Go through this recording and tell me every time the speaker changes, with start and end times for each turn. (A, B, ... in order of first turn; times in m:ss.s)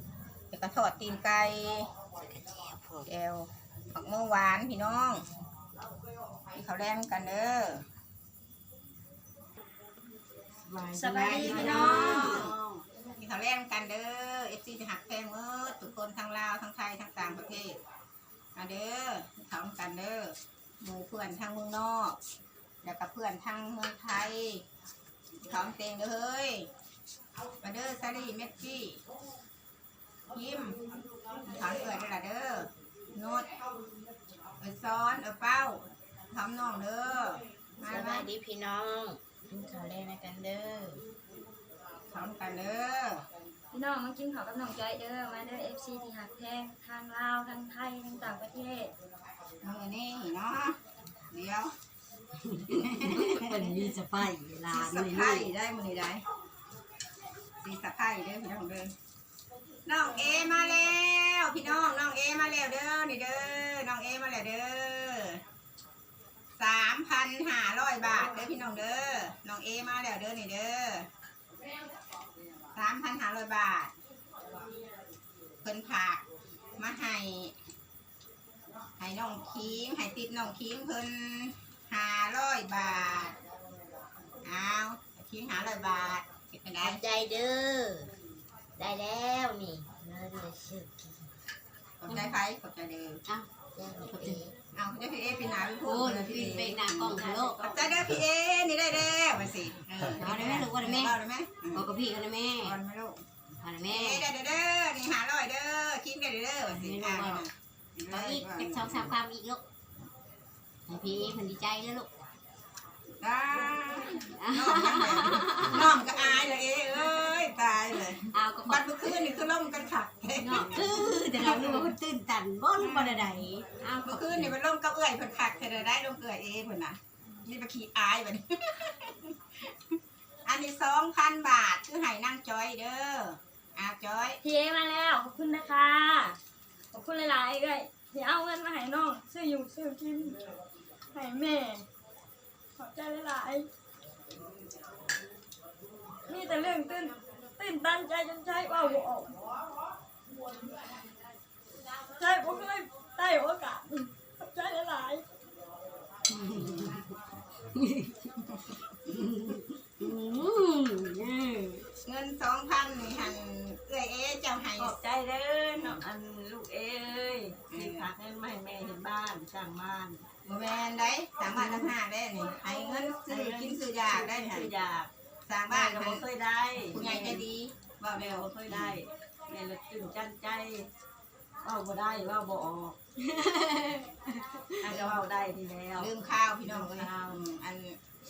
0:00.5-0:01.9 A
0:03.0-0:05.2 A
0:06.5-0:07.8 A
0:10.9-0:12.5 B
0:10.9-0:12.5 C
0:11.1-0:12.6 A
0:13.2-0:17.8 A
0:18.5-0:22.2 A
0:22.8-0:24.6 A
0:25.4-0:26.7 A
0:27.6-0:29.0 A
0:30.3-0:30.8 A
0:31.4-0:33.6 A
0:34.6-0:38.3 A
0:37.9-0:38.3 D
0:42.1-0:43.2 A
0:43.7-0:48.9 B
0:49.6-0:50.8 A
0:51.3-0:51.7 A
0:52.4-0:55.5 C
0:52.7-0:53.6 A
0:54.7-0:56.2 A
0:57.6-0:58.9 A
0:59.8-1:05.4 A
1:06.6-1:11.1 A
1:12.7-1:13.9 A
1:15.6-1:16.2 A
1:16.8-1:17.5 A
1:19.0-1:23.4 A
1:24.4-1:27.0 A
1:26.9-1:27.4 D
1:29.6-1:30.0 D
1:32.0-1:33.2 A
1:32.1-1:32.4 C
1:33.8-1:34.4 D
1:34.0-1:34.4 C
1:34.1-1:41.9 A
1:35.8-1:37.8 C
1:40.0-1:41.2 C
1:41.7-1:42.8 C
1:42.6-1:43.2 A
1:43.6-1:44.3 C
1:43.9-1:49.2 A
1:46.7-1:47.4 C
1:48.1-1:49.6 C
1:50.9-1:52.1 C
1:53.2-2:01.9 A
1:54.3-1:56.0 C
1:58.2-1:59.4 C
2:00.4-2:04.6 C
2:02.8-2:03.4 A
2:04.0-2:09.9 A
2:10.4-2:14.4 A
2:14.4-2:16.4 B
2:16.9-2:20.4 B
2:21.1-2:21.8 B
2:22.8-2:23.7 B
2:26.2-2:29.4 B
2:32.1-2:35.2 B
2:36.4-2:36.9 A
2:36.4-2:37.0 C
2:37.7-2:38.2 C
2:38.3-2:39.1 A
2:39.1-2:41.9 C
2:42.0-2:45.0 A
2:44.8-2:50.2 E
2:45.7-2:46.0 A
2:47.7-2:48.1 A
2:50.4-2:54.7 A
2:51.5-2:51.9 E
2:53.3-2:55.1 E
2:55.5-2:56.2 A
2:55.7-2:57.5 E
2:56.8-2:59.0 A
2:58.1-3:00.9 E
3:01.6-3:03.0 E
3:03.2-3:05.0 C
3:04.8-3:06.1 E
3:04.9-3:05.2 A
3:06.0-3:08.0 A
3:06.7-3:07.1 E